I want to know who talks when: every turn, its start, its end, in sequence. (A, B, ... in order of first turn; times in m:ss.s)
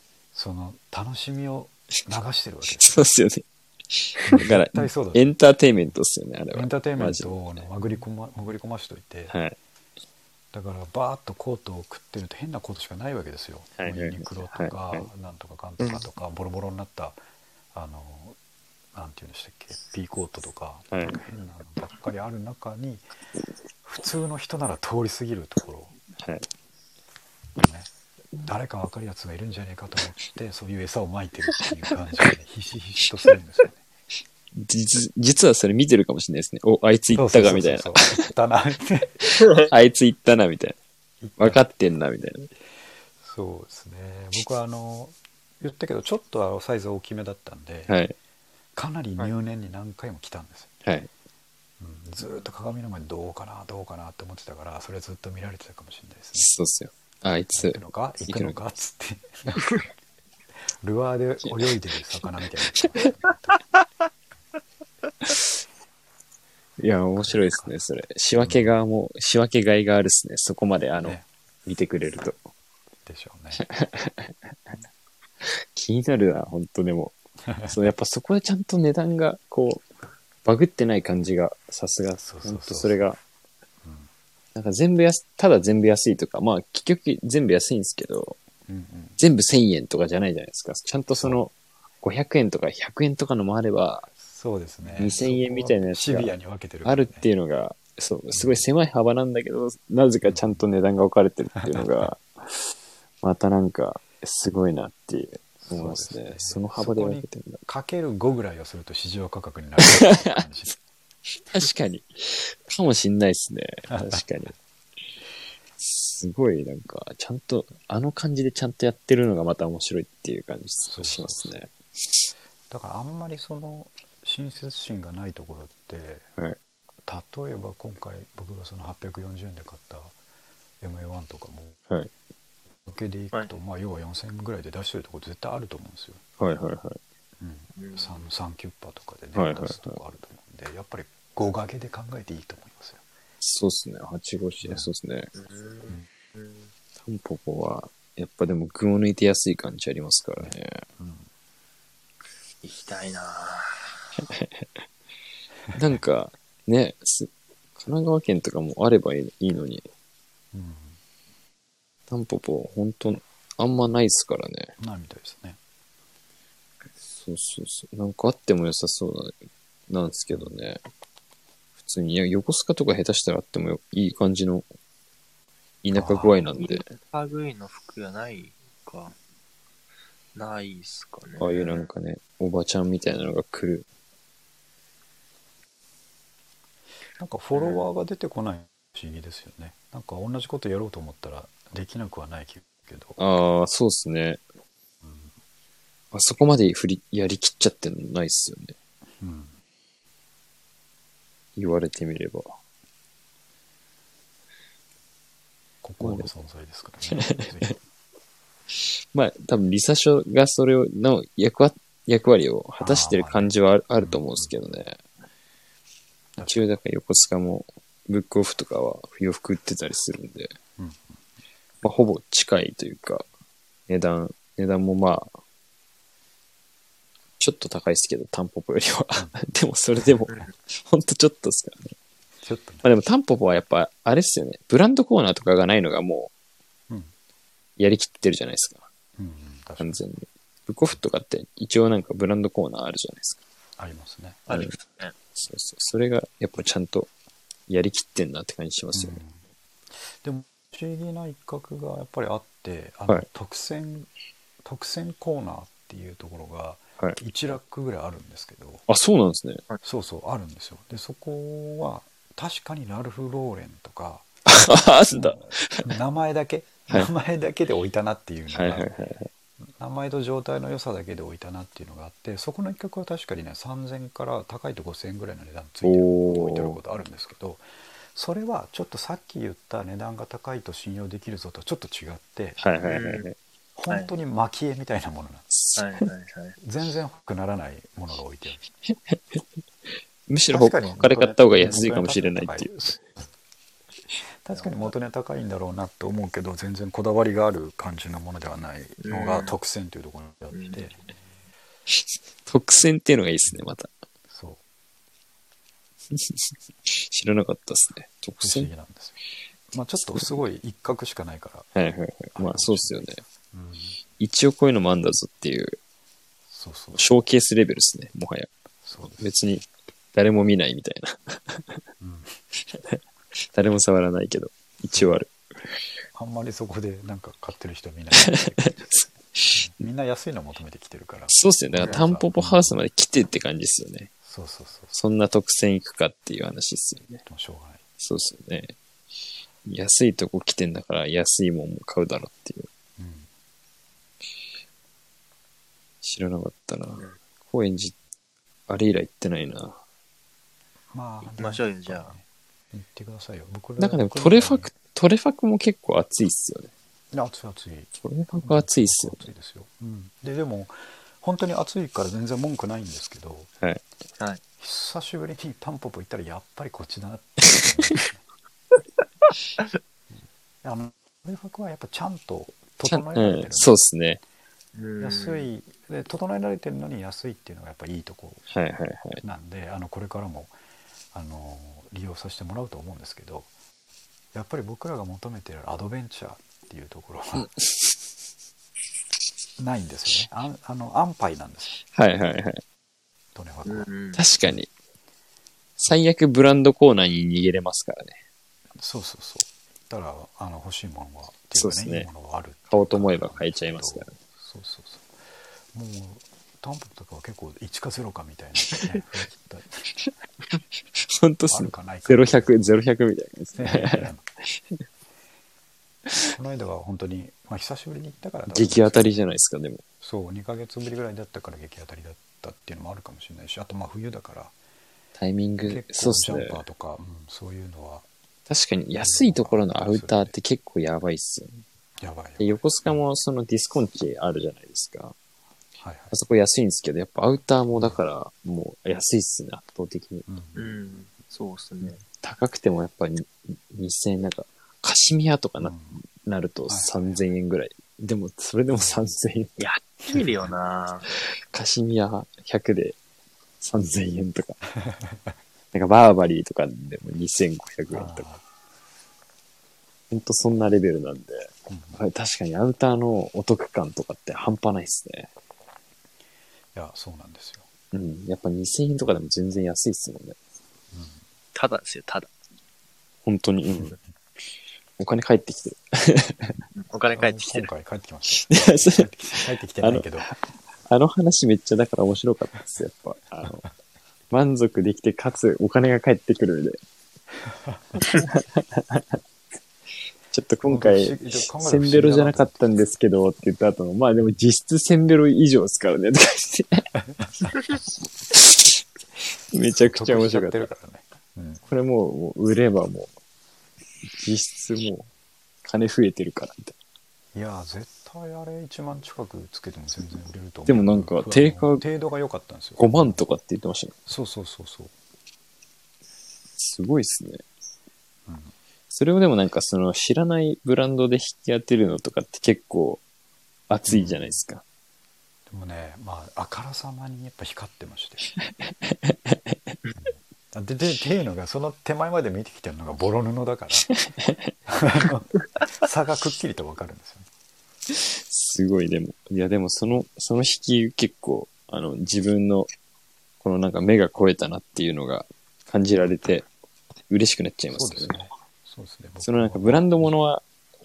0:00.3-0:03.0 A
0:02.8-0:07.4 B
0:04.3-0:05.2 A
0:06.5-0:09.3 A
0:09.3-0:09.6 B
0:10.5-0:17.2 A
0:13.8-0:15.1 B
0:15.8-0:16.0 C
0:17.7-0:18.4 A
0:18.9-0:23.0 A
0:20.9-0:21.2 B
0:23.8-0:25.9 A
0:26.2-0:26.4 B
0:27.6-0:27.9 A
0:28.4-0:33.8 A
0:34.6-0:38.3 B
0:37.1-0:39.3 A
0:39.3-0:40.8 B
0:41.2-0:41.6 A
0:41.4-0:42.5 B
0:43.2-0:48.0 A
0:47.9-0:48.1 B
0:48.8-0:50.7 A
0:50.8-0:51.1 B
0:51.8-0:56.5 A
0:56.4-0:58.6 B
0:57.6-0:59.8 A
1:00.8-1:03.6 A
1:02.7-1:03.0 B
1:06.8-1:12.4 B
1:07.2-1:07.7 A
1:08.4-1:08.7 A
1:11.0-1:11.2 A
1:13.0-1:13.6 A
1:13.6-1:14.3 B
1:15.4-1:17.2 B
1:17.5-1:17.8 A
1:17.7-1:19.8 B
1:20.4-1:23.2 B
1:22.2-1:23.0 A
1:23.8-1:24.1 A
1:24.5-1:28.4 B
1:28.7-1:29.2 A
1:29.2-1:34.1 B
1:31.2-1:31.4 A
1:34.2-1:37.3 A
1:34.8-1:36.3 B
1:36.8-1:47.6 B
1:38.3-1:38.6 A
1:40.2-1:40.6 A
1:41.6-1:42.1 A
1:45.6-1:50.7 A
1:49.8-1:50.4 B
1:51.3-1:54.5 B
1:53.9-1:54.2 A
1:55.8-2:01.7 B
2:00.8-2:01.5 A
2:02.7-2:06.3 A
2:07.0-2:10.1 A
2:10.8-2:11.8 A
2:12.8-2:16.2 A
2:16.4-2:17.0 B
2:17.4-2:23.0 A
2:17.8-2:18.2 C
2:19.3-2:20.0 B
2:23.4-2:25.3 B
2:24.6-2:24.9 A
2:25.3-2:26.7 C
2:27.0-2:30.8 B
2:30.4-2:31.3 A
2:32.6-2:33.9 C
2:34.3-2:34.6 B
2:35.7-2:39.8 B
2:40.5-2:41.0 A
2:42.1-2:44.7 B
2:44.8-2:45.6 A
2:47.1-2:49.3 B
2:49.9-2:50.8 B
2:50.3-2:50.6 A
2:51.8-2:54.6 B
2:55.8-2:56.9 B
2:55.9-2:56.3 A
2:56.6-2:59.1 C
3:00.3-3:01.9 C
3:01.4-3:03.8 B
3:07.2-3:13.2 A
3:07.5-3:07.9 C
3:13.2-3:14.4 B
3:15.0-3:15.3 A
3:16.1-3:18.7 B
3:19.2-3:19.5 A
3:21.6-3:22.5 B
3:25.8-3:27.8 A
3:26.0-3:26.2 B
3:27.1-3:27.5 B
3:29.1-3:35.0 B
3:32.8-3:34.6 A
3:36.4-3:36.6 A
3:36.4-3:40.6 B
3:40.8-3:41.2 A
3:41.8-3:43.2 B
3:43.9-3:45.3 B
3:47.4-3:51.9 B
3:52.4-3:52.8 A
3:52.8-3:56.3 B
3:57.8-3:58.8 B
3:59.2-4:00.0 A
3:59.8-4:03.4 B
4:03.8-4:04.5 A
4:04.5-4:05.1 C
4:05.3-4:07.1 B
4:07.7-4:09.2 B
4:08.9-4:09.4 A
4:10.0-4:14.1 A
4:14.6-4:18.8 A
4:18.9-4:19.6 B
4:19.8-4:24.3 A
4:24.5-4:25.9 B
4:25.1-4:28.9 A
4:28.5-4:29.3 B
4:29.7-4:42.6 A
4:35.8-4:36.8 B
4:42.6-4:43.3 B
4:42.8-4:43.2 C
4:43.8-4:45.4 A
4:45.5-4:45.8 B
4:45.8-4:46.6 C
4:46.6-4:48.6 A
4:48.9-4:49.4 B
4:50.3-4:52.9 B
4:50.5-4:53.0 A
4:54.4-5:01.0 A
4:59.0-4:59.6 C
5:00.5-5:00.8 C
5:01.9-5:03.9 B
5:04.3-5:04.6 A
5:06.1-5:08.7 B
5:08.4-5:09.2 A
5:09.7-5:11.7 A
5:11.7-5:13.2 B
5:12.4-5:14.0 A
5:14.2-5:15.8 B
5:16.5-5:17.0 A
5:16.9-5:18.5 B
5:18.8-5:19.2 A
5:19.2-5:21.8 B
5:22.0-5:22.3 A
5:22.7-5:25.8 B
5:26.1-5:28.9 A
5:28.2-5:29.6 B
5:29.5-5:32.8 A
5:31.3-5:34.1 B
5:34.2-5:34.9 A
5:34.9-5:37.2 B
5:37.2-5:37.8 A
5:38.0-5:38.7 B
5:39.6-5:42.7 B
5:43.0-5:43.3 A
5:46.0-5:47.9 B
5:48.7-5:49.8 B
5:50.9-5:54.7 A
5:51.4-5:52.1 C
5:53.8-5:56.7 B
5:57.1-6:03.5 A
5:58.0-5:59.2 B
6:04.6-6:08.2 A
6:10.6-6:13.7 A
6:12.9-6:14.2 B
6:14.7-6:15.5 C
6:15.0-6:18.4 A
6:18.5-6:19.2 B
6:19.2-6:20.5 A
6:21.1-6:23.5 A
6:24.3-6:27.5 A
6:27.4-6:27.9 B
6:29.6-6:31.8 A
6:31.9-6:32.6 B
6:33.3-6:33.9 A
6:33.6-6:34.2 C
6:34.1-6:34.7 B
6:35.8-6:38.2 B
6:38.8-6:45.1 A
6:41.6-6:42.1 B
6:42.7-6:44.1 B
6:45.7-6:49.8 A
6:48.7-6:49.0 B
6:51.0-6:54.1 B
6:51.5-6:52.7 A
6:53.6-6:54.2 A
6:56.2-6:59.2 A
6:58.5-6:59.8 B
7:00.0-7:04.5 A
7:05.2-7:06.6 B
7:05.6-7:08.0 A
7:08.5-7:11.6 B
7:09.0-7:10.3 A
7:12.0-7:13.0 A
7:12.4-7:15.1 B
7:15.8-7:16.1 A
7:16.1-7:20.3 B
7:20.3-7:20.8 A
7:20.6-7:22.0 C
7:22.2-7:29.6 B
7:25.6-7:25.9 A
7:26.7-7:27.1 A
7:29.6-7:31.1 C
7:31.5-7:33.0 B
7:33.6-7:34.6 B
7:34.8-7:35.3 A
7:35.7-7:38.2 B
7:37.9-7:38.4 A
7:40.1-7:45.3 B
7:41.7-7:42.0 A
7:46.7-7:47.7 A
7:47.9-7:50.4 B
7:50.9-7:51.2 A
7:51.5-7:52.3 C
7:53.2-7:53.9 B
7:55.0-7:56.6 B
7:56.8-7:57.7 C
7:57.1-8:00.3 A
7:58.4-8:00.3 B
8:00.9-8:03.6 B
8:04.3-8:06.8 B
8:07.5-8:08.0 A
8:08.0-8:09.2 B
8:10.3-8:16.9 B
8:10.6-8:12.6 A
8:18.3-8:18.8 B
8:19.5-8:20.7 B
8:19.8-8:21.6 A
8:21.7-8:23.1 B
8:24.1-8:25.1 B
8:25.6-8:26.7 B
8:27.3-8:33.2 A
8:30.7-8:31.8 B
8:32.8-8:33.9 B
8:34.0-8:34.9 A
8:36.6-8:37.4 B
8:38.3-8:38.5 A
8:38.9-8:43.0 B
8:43.7-8:44.6 B
8:43.9-8:44.4 A
8:45.5-8:48.3 A
8:48.4-8:49.7 B
8:50.0-8:53.9 A
8:53.9-8:54.4 B
8:54.7-8:57.3 A
8:57.9-9:02.7 B
9:03.4-9:06.5 B
9:07.1-9:08.2 B
9:07.7-9:10.1 A
9:09.2-9:10.4 B